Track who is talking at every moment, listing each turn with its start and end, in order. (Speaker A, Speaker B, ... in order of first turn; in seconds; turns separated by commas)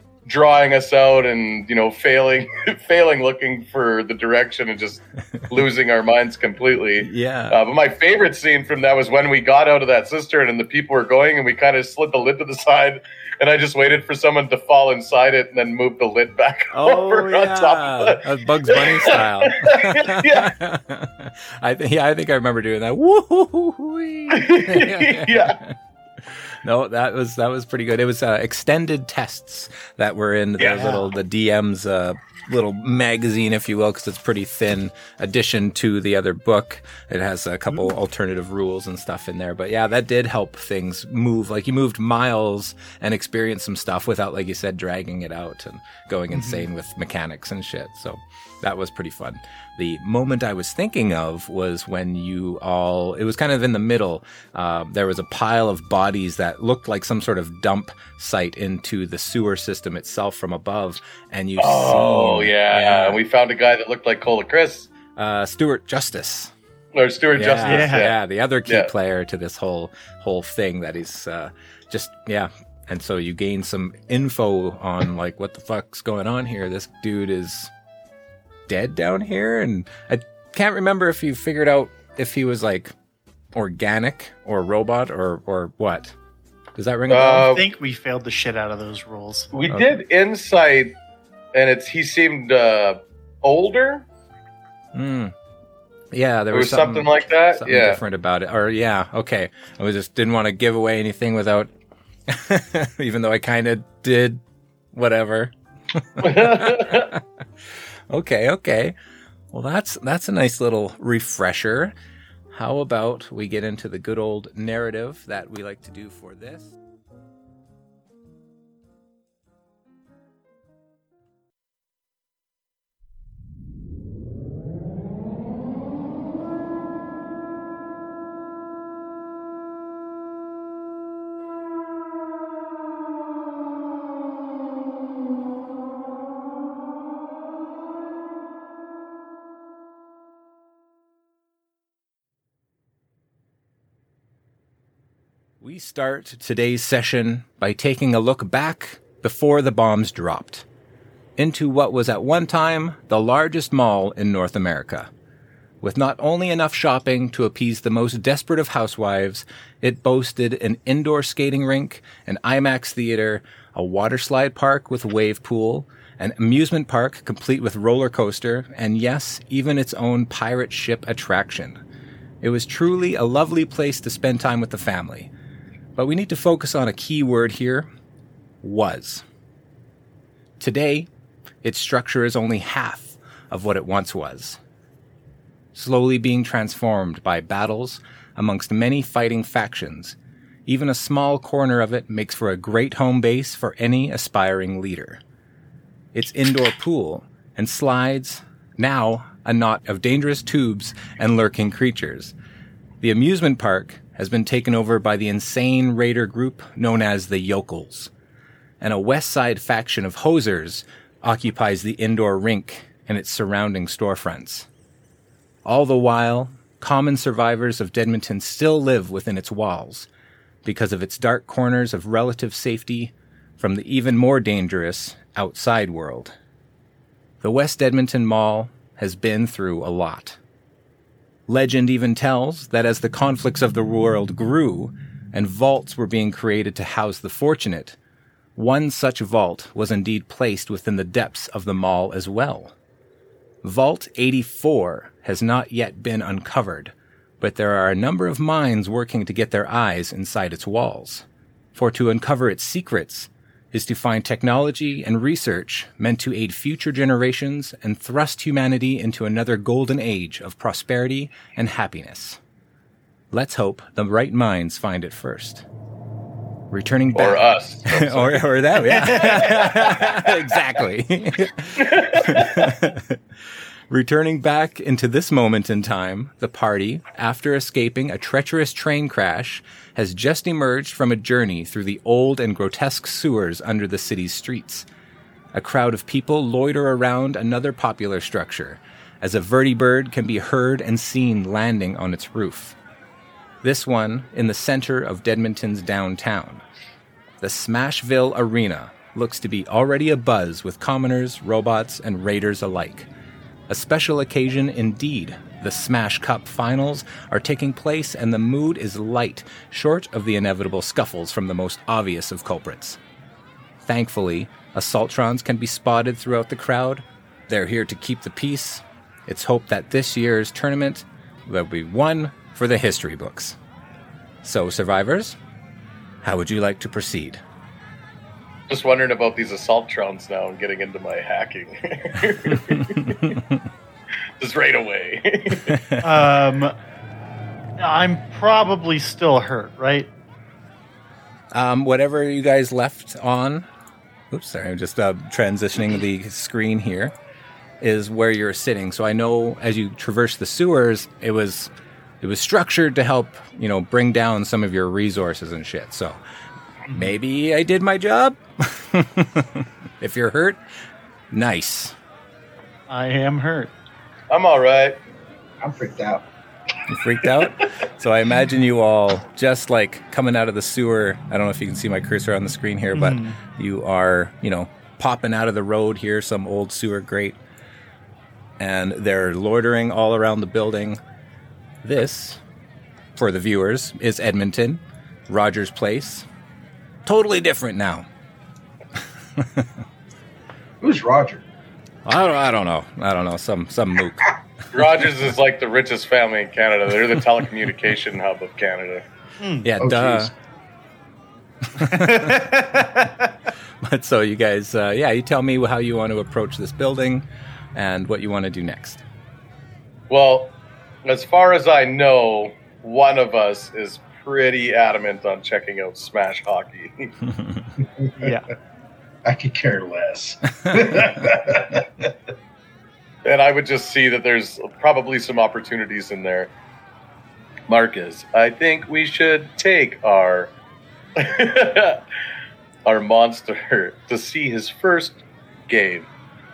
Speaker A: 0.2-20.5, Speaker B: 7.0-7.6, Speaker B: 16.7-25.7, Speaker A: 24.3-25.6, Speaker B: 26.4-63.2, Speaker C: 30.6-31.0, Speaker C: 46.3-46.6, Speaker A: 61.6-64.9, Speaker B: 65.2-66.5, Speaker A: 66.9-68.1, Speaker B: 67.3-77.7, Speaker C: 67.6-68.1, Speaker B: 78.7-82.9, Speaker B: 83.5-86.1, Speaker B: 86.8-87.5, Speaker A: 87.1-87.6, Speaker C: 87.5-89.5, Speaker A: 89.5-90.9, Speaker B: 89.7-90.0, Speaker A: 91.5-94.0, Speaker B: 94.9-95.3, Speaker B: 96.1-101.7, Speaker A: 96.5-98.0, Speaker B: 102.3-104.4, Speaker B: 104.9-107.2, Speaker A: 106.2-107.1, Speaker B: 108.1-108.9, Speaker B: 109.5-111.9, Speaker B: 112.5-116.7, Speaker B: 145.6-150.6, Speaker B: 151.4-155.1, Speaker B: 155.8-171.8, Speaker B: 172.4-175.3, Speaker B: 175.9-177.9, Speaker B: 178.6-179.2, Speaker B: 180.6-181.1, Speaker B: 181.6-184.6, Speaker B: 185.7-195.2, Speaker B: 196.1-202.3, Speaker B: 203.0-208.1, Speaker B: 208.8-214.7, Speaker B: 215.6-220.1, Speaker B: 220.6-226.3, Speaker B: 227.4-230.4, Speaker B: 231.5-238.0, Speaker B: 238.6-242.7, Speaker B: 243.6-262.4, Speaker B: 263.3-265.6, Speaker B: 266.7-273.2, Speaker A: 267.1-270.3, Speaker A: 271.8-272.7, Speaker B: 273.9-284.9, Speaker B: 285.5-292.8, Speaker B: 293.6-296.6, Speaker B: 297.4-303.1, Speaker B: 303.7-313.0, Speaker B: 313.8-323.6, Speaker B: 324.4-325.4, Speaker B: 326.2-327.4, Speaker A: 328.7-333.3, Speaker B: 332.9-333.3, Speaker A: 334.4-335.8, Speaker B: 335.7-336.0, Speaker C: 336.0-336.7, Speaker C: 337.8-340.1, Speaker B: 341.5-343.7, Speaker B: 344.3-347.1, Speaker B: 347.8-356.2, Speaker B: 356.9-360.6, Speaker B: 361.3-361.9, Speaker C: 362.9-363.7, Speaker A: 364.3-365.0, Speaker D: 365.6-366.3, Speaker B: 366.9-377.4, Speaker C: 372.9-373.4, Speaker B: 378.6-381.0, Speaker B: 381.8-382.4, Speaker B: 383.1-386.2, Speaker B: 387.1-388.1, Speaker B: 389.4-389.7, Speaker D: 390.8-391.4, Speaker B: 392.1-394.4, Speaker A: 394.7-399.0, Speaker C: 399.4-399.7, Speaker B: 399.6-400.3, Speaker D: 399.8-400.3, Speaker B: 401.7-402.4, Speaker C: 401.9-403.3, Speaker B: 403.8-409.0, Speaker A: 410.1-410.5, Speaker A: 411.0-417.1, Speaker D: 418.0-418.3, Speaker C: 418.2-418.5, Speaker D: 419.2-422.1, Speaker A: 423.2-426.5, Speaker A: 427.7-430.5, Speaker A: 431.1-432.0, Speaker A: 432.9-436.1